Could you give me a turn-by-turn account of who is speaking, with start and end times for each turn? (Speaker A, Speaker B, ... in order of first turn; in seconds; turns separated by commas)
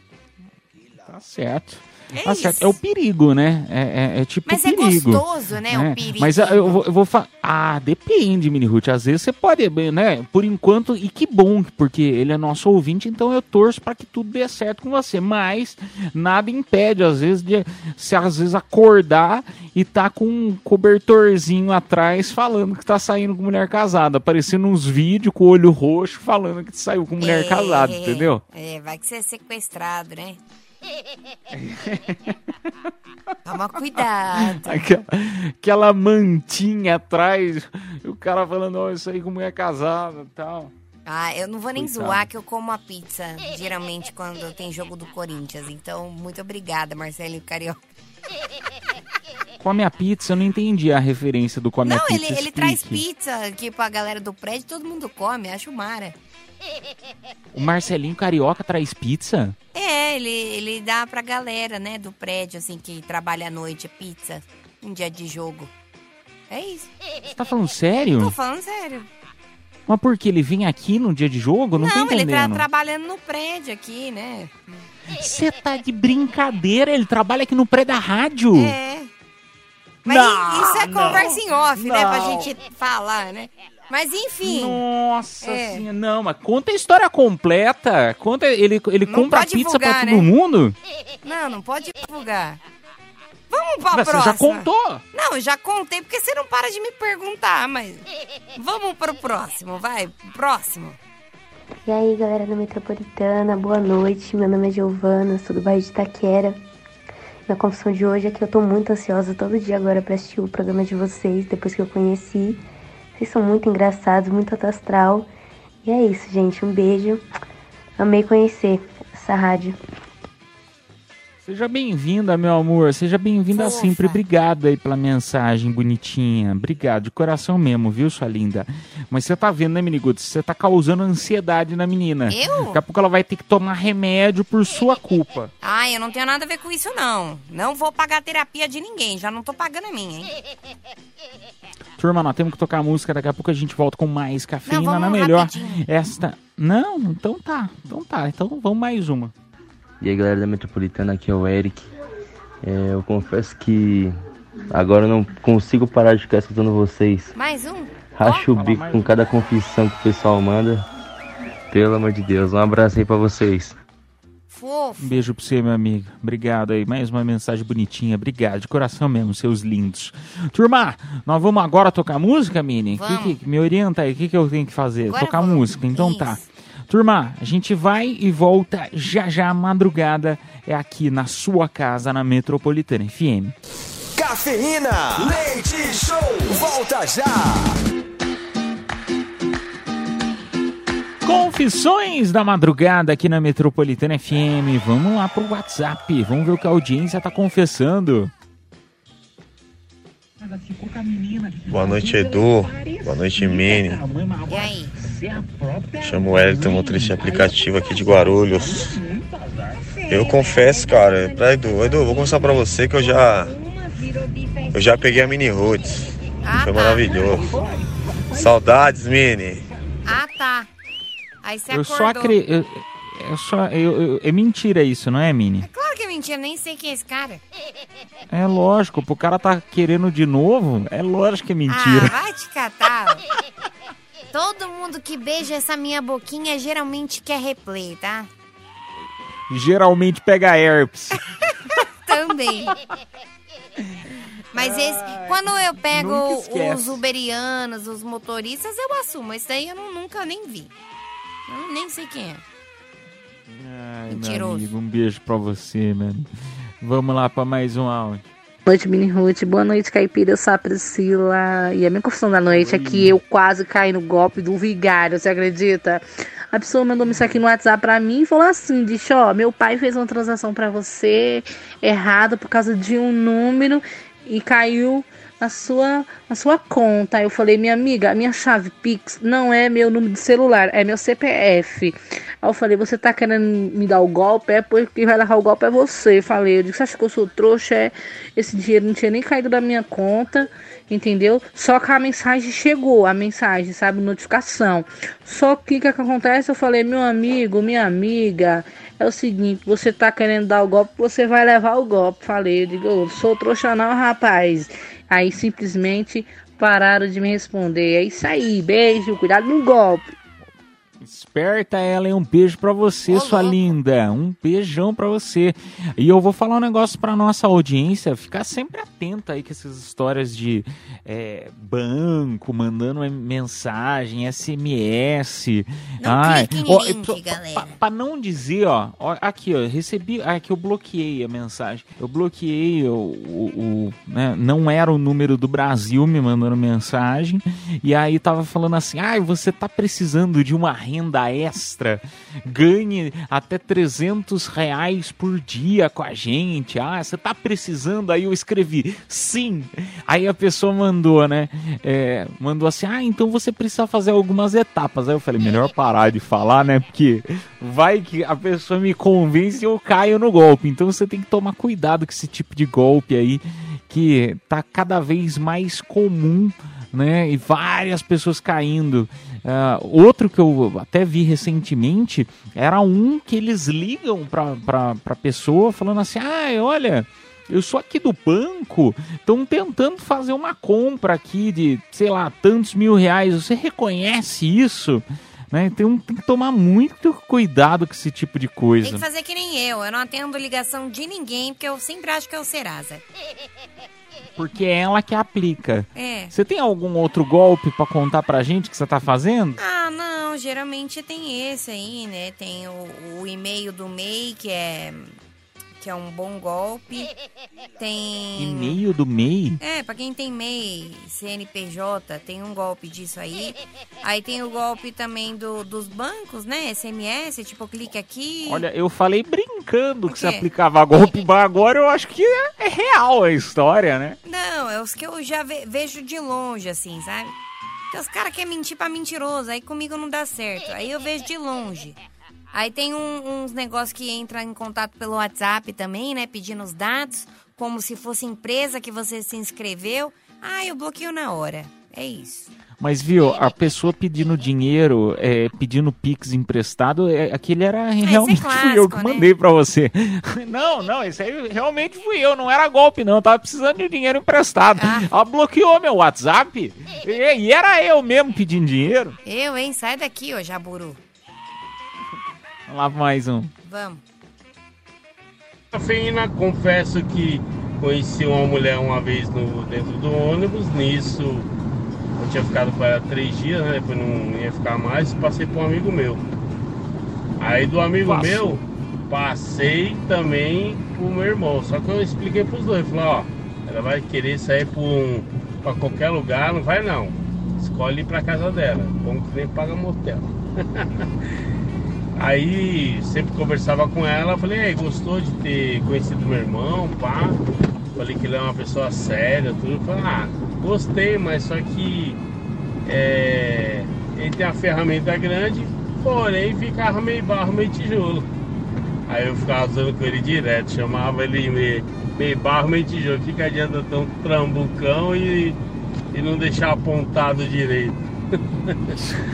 Speaker A: 1.0-28.4, Speaker B: 2.1-2.8, Speaker B: 4.5-6.8, Speaker B: 27.2-30.4, Speaker A: 31.5-32.4, Speaker B: 33.4-34.8, Speaker A: 34.0-40.7, Speaker B: 41.0-47.8, Speaker A: 41.8-42.2, Speaker A: 49.6-53.0, Speaker B: 51.8-56.1, Speaker A: 57.5-59.5, Speaker B: 59.7-65.7, Speaker B: 66.5-66.9, Speaker A: 67.3-68.3, Speaker B: 68.2-69.1, Speaker A: 69.9-72.7, Speaker B: 71.8-74.5, Speaker A: 75.1-78.8, Speaker B: 78.5-79.1, Speaker A: 80.0-82.5, Speaker B: 80.0-84.8, Speaker A: 84.4-90.8, Speaker B: 85.4-85.8, Speaker B: 89.0-90.3, Speaker B: 91.2-92.6, Speaker B: 93.5-98.0, Speaker A: 93.9-95.0, Speaker B: 98.5-101.0, Speaker C: 101.8-106.6, Speaker C: 107.5-112.6, Speaker C: 113.2-115.3, Speaker C: 115.8-117.2, Speaker C: 118.0-119.8, Speaker A: 121.4-135.5, Speaker B: 123.5-124.2, Speaker B: 132.3-132.8, Speaker B: 135.6-140.3, Speaker A: 142.0-149.3, Speaker B: 144.7-145.8, Speaker D: 150.0-151.9, Speaker D: 152.6-154.1, Speaker D: 154.7-157.3, Speaker B: 157.3-158.5, Speaker D: 158.2-160.8, Speaker A: 158.5-159.1, Speaker D: 161.7-163.8, Speaker B: 164.5-165.3, Speaker A: 165.0-183.5, Speaker B: 172.9-173.4, Speaker B: 175.1-176.4, Speaker E: 184.2-187.8, Speaker A: 191.2-198.3, Speaker A: 200.4-210.2, Speaker F: 201.7-204.0, Speaker B: 204.5-205.0, Speaker F: 206.0-208.9, Speaker F: 210.1-213.5, Speaker B: 212.1-212.3, Speaker F: 214.7-217.6, Speaker B: 216.4-217.3, Speaker A: 217.1-218.9, Speaker F: 218.3-219.7, Speaker B: 220.0-220.7, Speaker B: 221.4-222.3, Speaker A: 221.7-225.7, Speaker B: 225.6-227.4, Speaker A: 228.3-232.2, Speaker B: 231.7-233.2, Speaker B: 234.3-238.3, Speaker A: 239.5-241.2, Speaker B: 242.0-242.8, Speaker A: 243.9-247.0, Speaker B: 244.5-250.7, Speaker B: 251.5-252.4, Speaker A: 253.5-256.3, Speaker B: 254.1-254.7, Speaker A: 256.8-258.2, Speaker G: 258.6-310.1, Speaker A: 262.5-263.2, Speaker A: 311.0-389.0, Speaker B: 313.1-313.6, Speaker B: 326.0-327.8, Speaker B: 388.8-393.0, Speaker A: 394.4-399.6, Speaker B: 395.9-396.3, Speaker B: 399.6-405.1, Speaker B: 405.8-407.1, Speaker B: 407.8-408.8, Speaker A: 408.4-409.6, Speaker B: 409.6-418.6, Speaker A: 418.5-424.2, Speaker B: 420.1-420.4, Speaker B: 424.2-427.3, Speaker B: 427.9-432.0, Speaker B: 432.5-442.5, Speaker A: 442.8-459.2, Speaker B: 448.0-449.3, Speaker B: 454.8-455.1, Speaker B: 459.2-461.0, Speaker A: 462.7-463.5, Speaker B: 463.6-464.0, Speaker H: 465.7-471.5, Speaker H: 472.2-476.2, Speaker H: 477.4-491.1, Speaker A: 478.0-478.6, Speaker H: 492.2-497.4, Speaker H: 497.9-502.2, Speaker H: 502.9-508.2, Speaker H: 509.1-515.6, Speaker H: 516.1-518.0